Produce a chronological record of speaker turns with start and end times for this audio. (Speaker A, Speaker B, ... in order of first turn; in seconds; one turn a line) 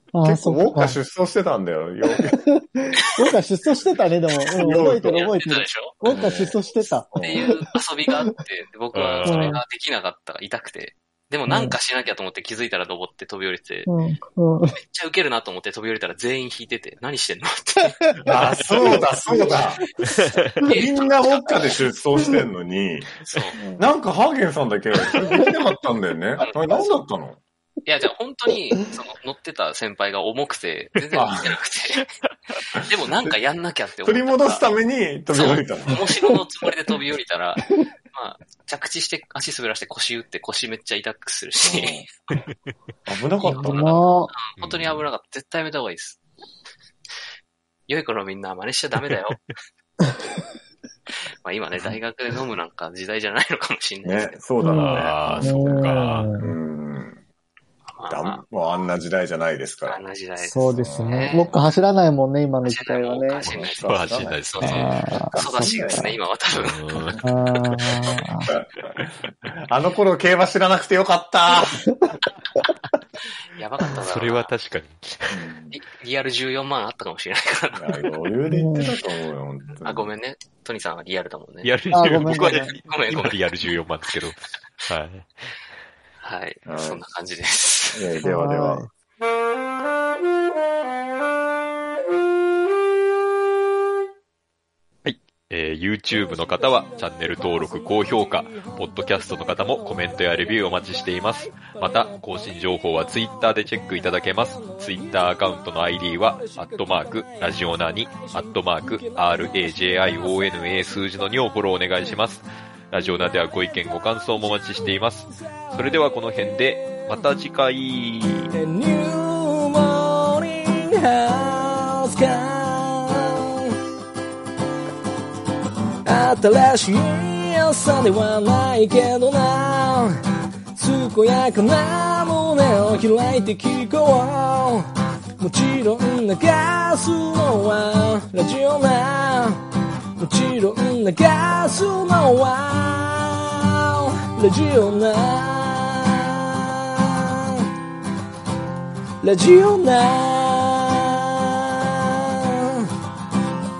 Speaker A: 0.1-1.0
Speaker B: 0.2-2.4
Speaker A: 2.2-7.7
Speaker C: 3.0-3.2
Speaker B: 4.6-5.3
Speaker C: 4.6-6.1
Speaker B: 6.0-6.6
Speaker C: 6.7-13.9
Speaker B: 7.1-7.5
Speaker D: 8.9-9.6
Speaker A: 9.2-9.6
Speaker A: 11.5-11.8
Speaker A: 13.9-14.8
Speaker C: 14.8-18.2
Speaker B: 18.3-19.9
Speaker D: 20.1-20.7
Speaker C: 20.6-21.6
Speaker B: 20.7-27.4
Speaker C: 23.2-23.6
Speaker C: 26.4-27.0
Speaker C: 27.8-32.1
Speaker B: 31.1-31.6
Speaker C: 32.8-34.7
Speaker B: 34.0-36.1
Speaker C: 35.3-42.1
Speaker B: 41.6-42.1
Speaker B: 43.1-44.0
Speaker C: 43.4-46.2
Speaker A: 43.6-44.3
Speaker D: 44.6-45.1
Speaker C: 47.9-49.4
Speaker D: 49.0-49.4
Speaker C: 51.4-55.2
Speaker B: 54.0-57.2
Speaker A: 54.6-56.5
Speaker D: 54.7-56.3
Speaker C: 57.9-58.4
Speaker B: 58.1-60.0
Speaker C: 59.8-61.5
Speaker A: 60.4-63.5
Speaker B: 60.7-61.6
Speaker C: 62.6-67.0
Speaker D: 63.4-65.3
Speaker B: 63.5-64.7
Speaker A: 64.6-66.1
Speaker B: 65.3-66.1
Speaker D: 66.5-68.1
Speaker A: 67.2-68.5
Speaker B: 68.5-69.1
Speaker B: 69.7-71.8
Speaker C: 73.5-74.5
Speaker D: 73.9-75.4
Speaker B: 75.3-75.8
Speaker C: 75.7-78.1
Speaker B: 77.7-80.1
Speaker A: 78.5-79.0
Speaker C: 79.8-81.7
Speaker D: 81.6-85.5
Speaker A: 81.9-82.8
Speaker C: 82.8-84.1
Speaker C: 86.2-88.2
Speaker B: 86.6-87.0
Speaker B: 87.9-88.8
Speaker A: 88.2-88.9
Speaker D: 95.0-118.5
Speaker E: 118.7-123.6
Speaker E: 126.0-130.2
Speaker E: 130.7-134.9
Speaker E: 135.4-139.6
Speaker E: 140.2-147.6
Speaker E: 149.2-152.8